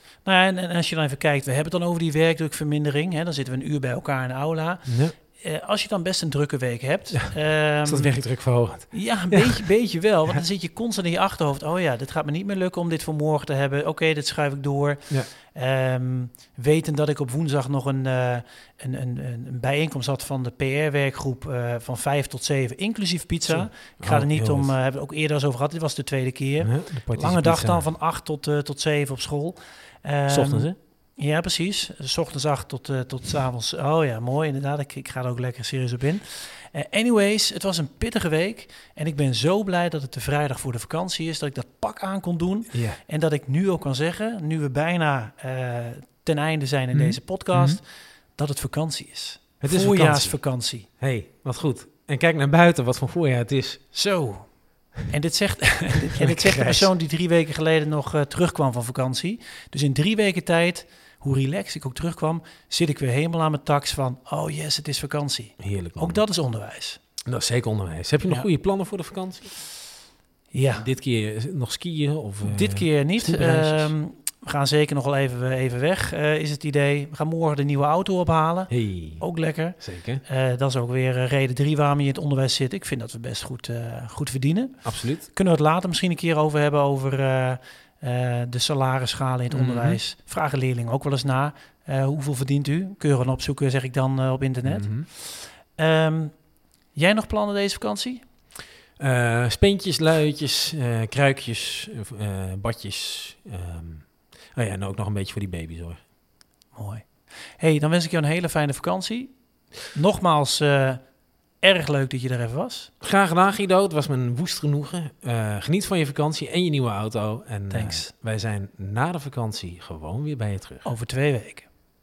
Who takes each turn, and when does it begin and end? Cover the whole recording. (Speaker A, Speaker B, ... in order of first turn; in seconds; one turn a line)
Speaker A: 0.2-8.2
Speaker B: 4.9-5.1
Speaker B: 7.8-9.6
Speaker A: 8.9-50.9
Speaker B: 23.5-24.7
Speaker B: 26.6-27.9
Speaker B: 30.3-30.8
Speaker B: 42.7-43.0
Speaker B: 46.9-47.8
Speaker B: 49.6-50.4
Speaker B: 51.0-53.8
Speaker A: 53.9-54.5
Speaker A: 55.0-67.0
Speaker B: 56.1-56.9
Speaker B: 65.6-66.2
Speaker B: 67.3-69.5
Speaker A: 70.5-70.9
Speaker B: 70.8-73.9
Speaker A: 72.4-96.4
Speaker B: 78.7-80.2
Speaker B: 84.8-85.3
Speaker B: 89.5-90.0
Speaker B: 94.6-95.1
Speaker A: 96.9-98.2
Speaker B: 99.0-106.0
Speaker A: 106.7-107.0
Speaker A: 107.6-111.0
Speaker A: 111.6-112.9
Speaker B: 113.0-120.9
Speaker A: 117.7-118.1
Speaker A: 120.8-121.7